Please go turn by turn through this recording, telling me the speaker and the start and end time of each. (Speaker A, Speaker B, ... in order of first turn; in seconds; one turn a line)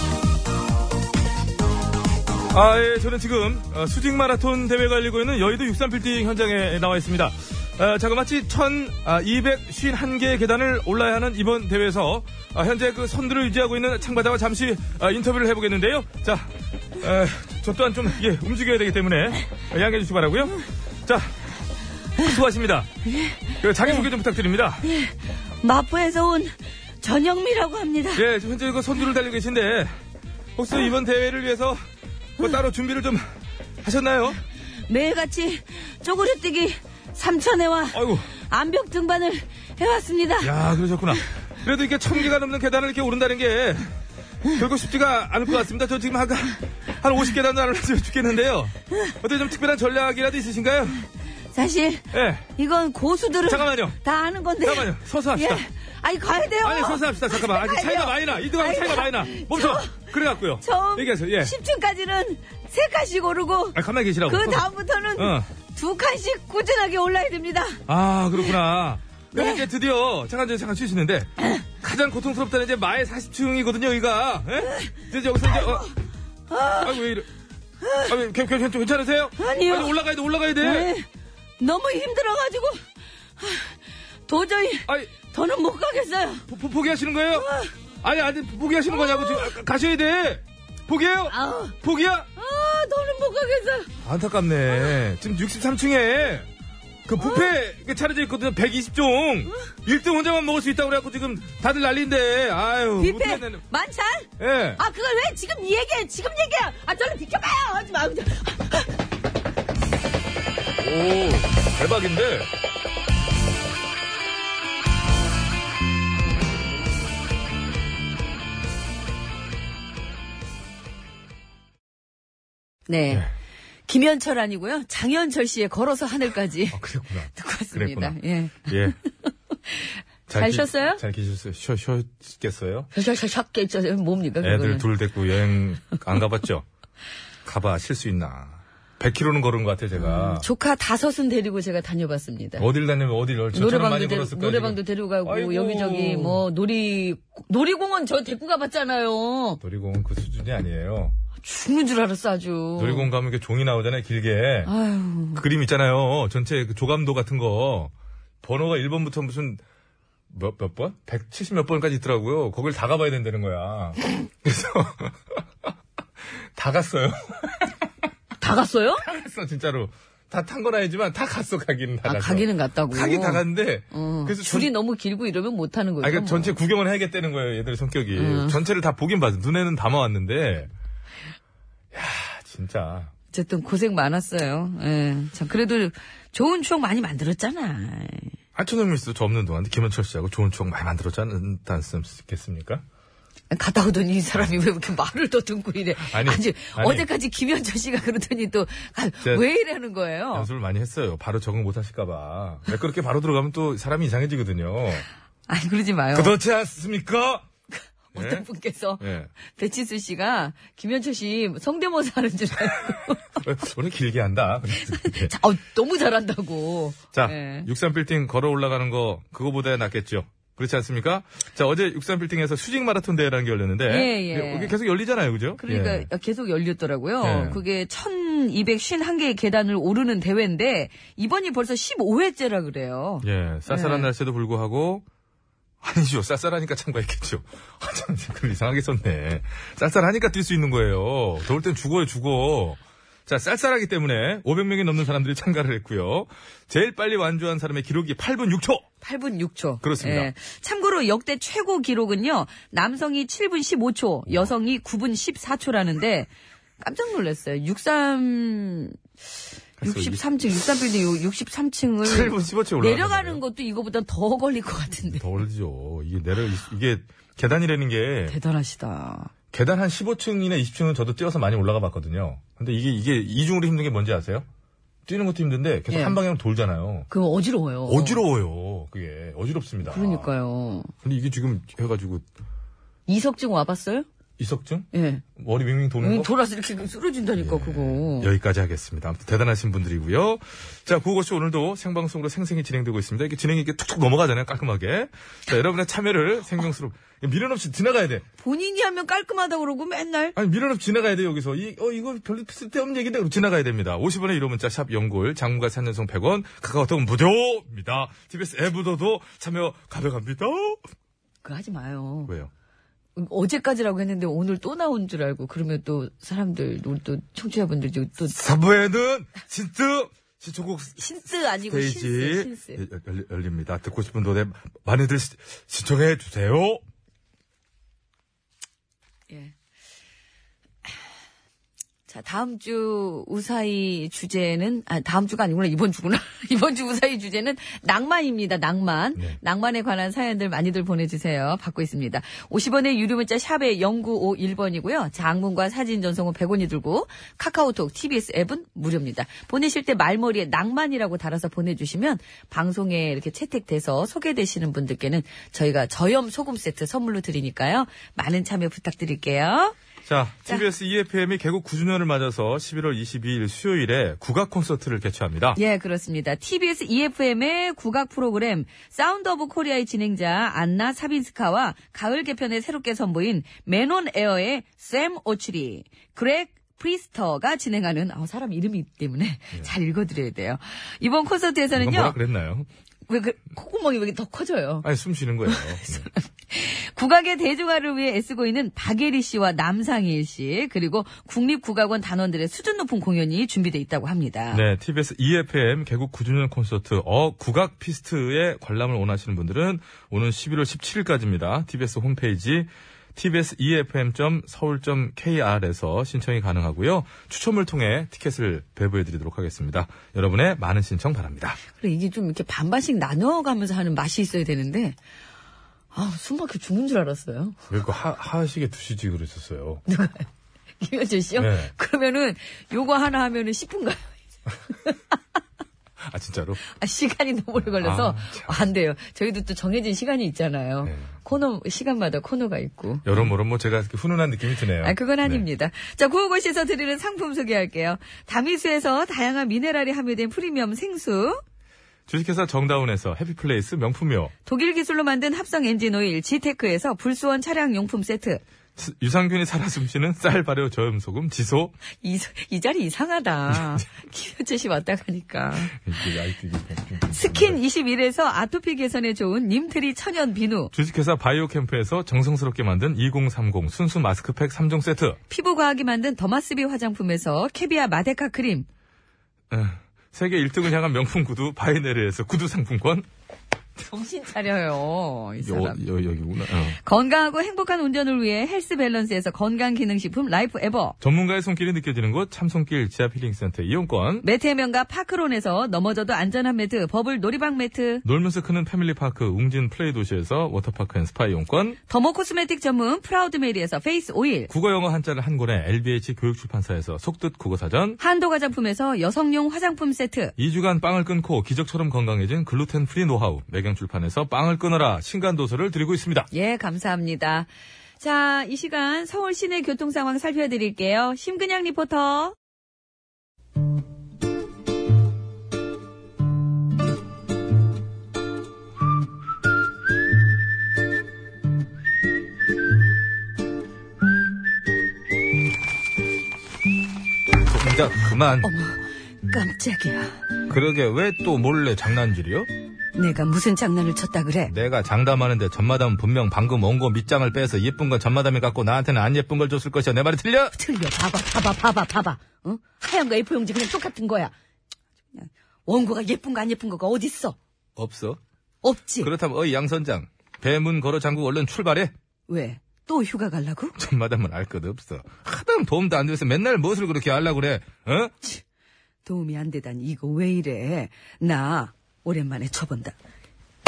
Speaker A: 2.5-21.5
Speaker A: 22.2-22.9
Speaker A: 23.6-24.9
Speaker B: 24.8-28.2
Speaker A: 28.1-30.0
Speaker A: 30.6-31.8
Speaker A: 32.4-33.3
Speaker A: 33.8-34.4
Speaker B: 34.9-40.5
Speaker A: 37.9-38.3
Speaker A: 40.4-44.0
Speaker A: 44.5-51.0
Speaker B: 51.5-67.8
Speaker A: 52.1-52.5
Speaker A: 53.5-54.0
Speaker A: 54.6-55.6
Speaker A: 56.6-61.5
Speaker A: 63.8-65.5
Speaker A: 67.9-75.9
Speaker B: 69.3-69.6
Speaker B: 76.5-77.0
Speaker A: 76.8-77.3
Speaker B: 77.8-78.1
Speaker A: 78.0-80.9
Speaker B: 79.4-80.0
Speaker B: 80.6-81.1
Speaker B: 81.6-82.8
Speaker B: 83.4-86.5
Speaker A: 86.5-87.5
Speaker B: 87.3-87.8
Speaker A: 88.0-92.3
Speaker B: 88.9-89.5
Speaker B: 91.3-91.8
Speaker B: 92.4-93.9
Speaker A: 94.0-96.5
Speaker A: 97.1-103.6
Speaker B: 97.2-97.5
Speaker B: 103.0-109.0
Speaker A: 104.4-104.8
Speaker A: 110.8-112.5
Speaker B: 122.9-123.3
Speaker B: 123.9-128.9
Speaker A: 126.7-129.0
Speaker B: 129.7-131.0
Speaker A: 130.3-132.9
Speaker B: 132.9-134.9
Speaker A: 134.4-136.7
Speaker A: 137.4-140.5
Speaker B: 140.0-142.7
Speaker A: 142.6-146.4
Speaker B: 143.5-149.6
Speaker A: 149.6-151.2
Speaker B: 151.4-153.1
Speaker A: 152.8-154.7
Speaker B: 154.7-155.4
Speaker A: 155.3-157.9
Speaker A: 158.4-159.6
Speaker A: 160.3-165.2
Speaker A: 166.6-167.8
Speaker B: 168.4-169.1
Speaker A: 169.0-174.7
Speaker B: 172.1-176.6
Speaker A: 176.0-180.7
Speaker B: 178.2-178.6
Speaker A: 181.9-183.1
Speaker B: 183.3-188.3
Speaker A: 188.6-192.8
Speaker B: 193.5-200.5
Speaker A: 196.0-197.1
Speaker A: 200.3-205.1
Speaker B: 205.5-206.4
Speaker A: 206.1-207.5
Speaker B: 207.7-213.4
Speaker A: 208.1-208.5
Speaker A: 209.0-209.3
Speaker A: 212.9-215.4
Speaker B: 214.8-217.7
Speaker A: 217.1-226.1
Speaker B: 223.9-224.8
Speaker B: 225.6-234.1
Speaker A: 227.2-227.6
Speaker A: 233.2-235.1
Speaker A: 235.8-248.9
Speaker B: 249.0-259.0
Speaker A: 249.8-250.3
Speaker A: 259.8-260.2
Speaker B: 259.8-265.3
Speaker A: 262.0-263.4
Speaker A: 265.1-268.4
Speaker B: 268.3-269.3
Speaker A: 269.5-274.5
Speaker A: 275.1-277.1
Speaker B: 275.9-276.2
Speaker B: 277.1-278.2
Speaker A: 277.9-280.3
Speaker B: 279.9-280.9
Speaker A: 281.0-282.2
Speaker B: 283.1-284.1
Speaker A: 284.4-286.3
Speaker B: 284.9-285.2
Speaker B: 286.0-288.3
Speaker A: 287.4-298.2
Speaker B: 298.4-300.4
Speaker A: 300.4-310.8
Speaker B: 311.4-312.3
Speaker B: 313.2-318.4
Speaker A: 318.3-326.8
Speaker B: 321.0-322.8
Speaker B: 332.1-359.8
Speaker A: 360.1-365.6
Speaker B: 365.6-382.2
Speaker A: 381.7-382.7
Speaker B: 383.1-384.9
Speaker A: 384.8-386.1
Speaker B: 385.5-394.6
Speaker A: 394.5-411.6
Speaker B: 411.7-415.0
Speaker B: 415.9-417.6
Speaker A: 417.7-419.8
Speaker B: 419.9-420.3
Speaker B: 420.8-424.2
Speaker A: 421.4-421.7
Speaker B: 424.7-425.0
Speaker A: 426.0-426.6
Speaker B: 426.6-433.3
Speaker A: 427.6-428.7
Speaker A: 430.8-431.1
Speaker A: 433.1-435.5
Speaker B: 434.8-441.4
Speaker A: 442.1-444.3
Speaker B: 444.4-448.4
Speaker A: 448.8-451.8
Speaker B: 452.0-455.8
Speaker A: 453.5-453.8
Speaker A: 455.7-457.6
Speaker B: 457.1-460.7
Speaker A: 460.7-465.2
Speaker B: 465.3-468.7
Speaker A: 469.5-473.1
Speaker B: 473.8-475.8
Speaker A: 475.4-476.8
Speaker B: 476.8-481.0
Speaker A: 481.0-484.2
Speaker B: 484.2-488.0
Speaker A: 488.0-491.8
Speaker B: 491.9-494.5
Speaker A: 494.5-498.0
Speaker B: 498.0-500.3
Speaker A: 500.4-506.3
Speaker B: 506.3-507.5
Speaker B: 508.0-512.4
Speaker A: 527.4-528.5
Speaker B: 528.4-530.2
Speaker A: 530.5-532.5
Speaker B: 533.0-534.5
Speaker A: 534.5-540.5
Speaker B: 540.5-544.3
Speaker B: 545.1-547.4
Speaker A: 547.8-548.2
Speaker B: 548.6-549.1
Speaker A: 549.0-551.9
Speaker B: 552.3-553.8
Speaker A: 553.8-558.1
Speaker B: 559.0-563.0